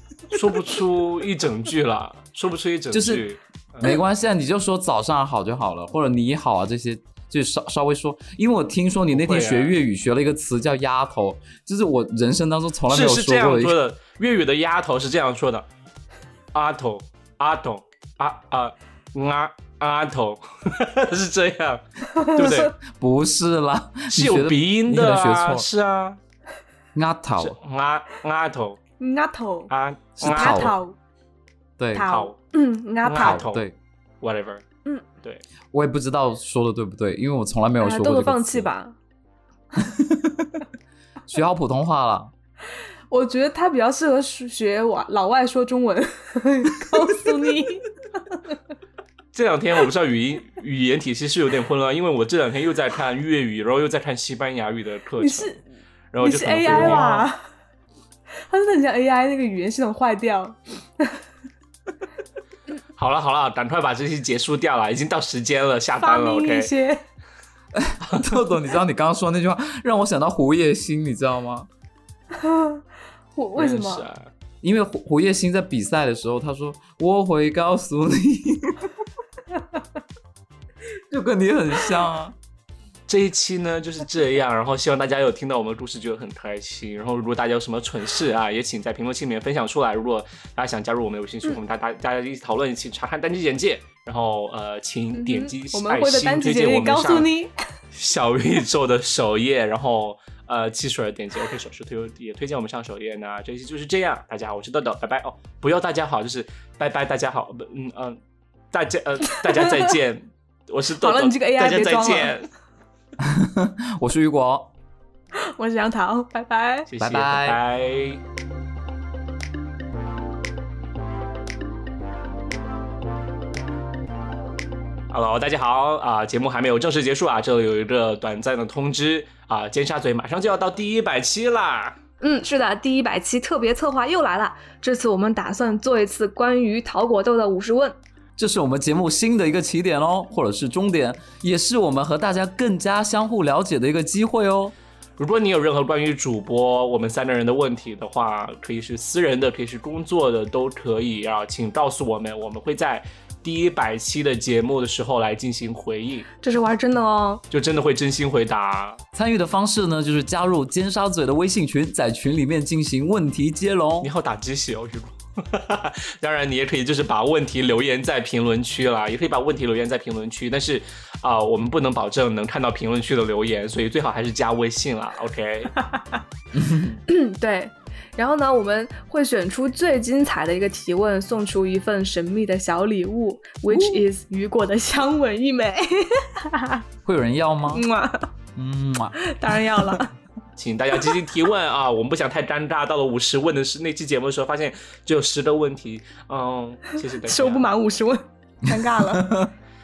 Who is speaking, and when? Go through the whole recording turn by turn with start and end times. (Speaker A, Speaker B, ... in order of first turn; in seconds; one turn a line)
Speaker A: 0.3-4.0
Speaker B: 2.9-3.2
Speaker B: 3.8-13.8
Speaker A: 9.1-9.8
Speaker A: 12.9-15.7
Speaker A: 16.5-22.7
Speaker C: 22.1-22.7
Speaker B: 22.8-25.7
Speaker A: 24.1-26.2
Speaker B: 26.9-27.6
Speaker A: 27.4-28.8
Speaker C: 29.0-29.7
Speaker A: 29.7-30.8
Speaker B: 30.2-30.8
Speaker C: 30.2-30.9
Speaker B: 31.8-32.1
Speaker C: 31.9-33.4
Speaker A: 32.0-32.4
Speaker A: 33.0-33.6
Speaker B: 33.1-33.8
Speaker A: 34.2-34.6
Speaker B: 35.7-38.7
Speaker C: 37.8-39.0
Speaker B: 39.8-40.6
Speaker B: 41.3-42.3
Speaker C: 43.1-48.6
Speaker A: 49.3-55.6
Speaker C: 55.2-55.6
Speaker A: 56.1-57.3
Speaker C: 56.2-57.5
Speaker B: 56.7-57.0
Speaker C: 58.5-61.2
Speaker A: 63.0-66.7
Speaker C: 66.0-67.0
Speaker B: 67.7-71.7
Speaker C: 72.3-72.8
Speaker C: 73.3-74.1
Speaker A: 73.6-74.3
Speaker B: 74.6-78.9
Speaker B: 81.1-82.3
Speaker A: 83.1-97.3
Speaker C: 95.1-97.5
Speaker A: 97.9-108.2
Speaker A: 108.7-112.5
Speaker C: 109.3-109.9
Speaker C: 111.0-112.4
Speaker B: 113.2-114.7
Speaker C: 115.4-116.9
Speaker A: 116.9-118.2
Speaker B: 117.0-117.6
Speaker A: 125.1-132.0
Speaker C: 132.2-138.0
Speaker B: 138.4-144.8
Speaker A: 145.2-156.3
Speaker C: 156.4-157.4
Speaker A: 157.5-159.0
Speaker B: 159.1-164.1
Speaker A: 164.0-175.7
Speaker C: 175.8-176.2
Speaker B: 176.5-177.0
Speaker C: 177.1-186.8
Speaker B: 183.7-184.0
Speaker B: 187.1-187.8
Speaker C: 187.7-188.3
Speaker B: 188.6-190.0
Speaker C: 189.2-190.1
Speaker A: 190.6-197.7
Speaker C: 197.2-199.3
Speaker B: 199.1-199.5